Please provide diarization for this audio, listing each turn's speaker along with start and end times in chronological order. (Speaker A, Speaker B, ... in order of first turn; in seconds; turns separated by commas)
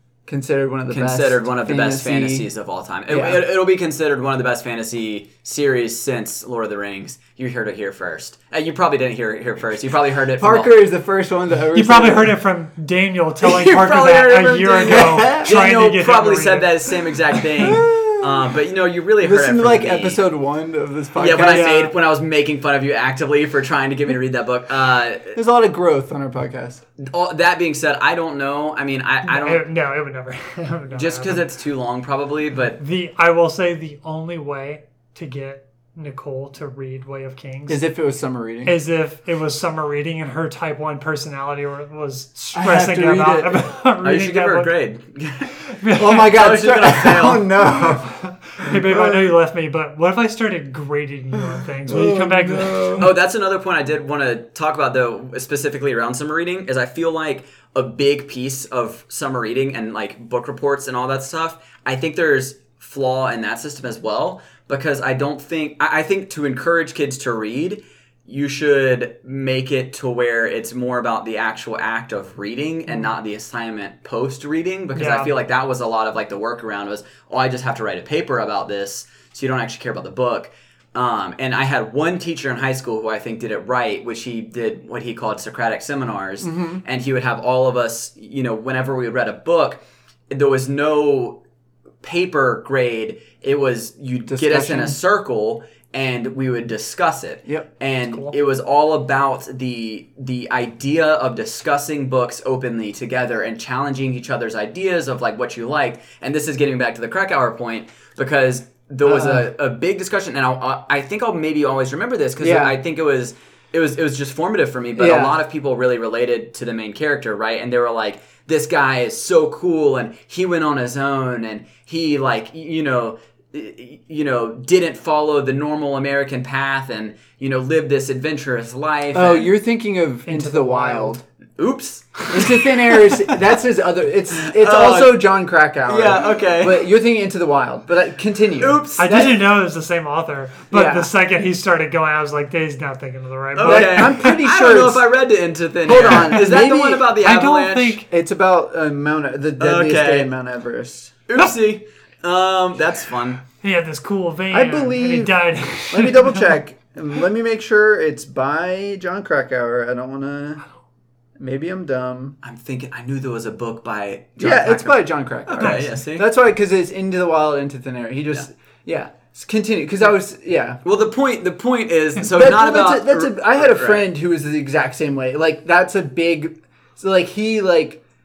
Speaker A: 0.3-2.5, Speaker B: 0.9-10.7, Speaker A: 3.1-3.4, Speaker A: 10.4-12.3, Speaker C: 11.7-16.7, Speaker B: 13.4-20.2, Speaker A: 14.8-15.5, Speaker A: 17.6-18.5, Speaker A: 19.2-21.8, Speaker B: 21.2-25.4, Speaker C: 21.4-21.9, Speaker A: 25.3-26.8, Speaker B: 27.0-29.6, Speaker C: 29.2-31.5, Speaker B: 30.9-32.8, Speaker C: 32.8-37.8, Speaker A: 37.7-38.7, Speaker C: 38.6-44.7, Speaker A: 42.5-43.6, Speaker B: 44.0-47.5, Speaker C: 45.6-46.3, Speaker A: 46.0-49.3, Speaker C: 48.0-53.0, Speaker A: 51.9-53.1, Speaker B: 53.0-89.8, Speaker C: 75.0-75.3, Speaker A: 86.4-86.8, Speaker B: 90.3-91.4, Speaker B: 92.0-129.5, Speaker A: 94.3-95.0, Speaker C: 98.1-98.3, Speaker A: 109.0-109.5, Speaker A: 112.4-112.8, Speaker A: 115.0-115.4, Speaker A: 129.1-131.2, Speaker C: 130.3-131.2, Speaker B: 131.6-133.5, Speaker A: 132.3-139.4, Speaker B: 134.4-135.2, Speaker B: 135.9-136.9, Speaker B: 138.6-139.2, Speaker C: 139.0-144.3, Speaker A: 140.7-141.1, Speaker B: 143.6-148.0, Speaker A: 143.6-145.1, Speaker A: 145.8-147.1, Speaker C: 147.2-148.1, Speaker A: 148.1-151.2, Speaker B: 149.6-150.3, Speaker B: 151.3-153.4, Speaker C: 153.6-156.6, Speaker A: 154.5-155.4, Speaker A: 155.9-160.7, Speaker A: 161.4-162.4, Speaker B: 162.4-166.3, Speaker A: 164.4-170.8, Speaker C: 165.6-165.9, Speaker B: 170.8-174.1, Speaker A: 172.3-178.0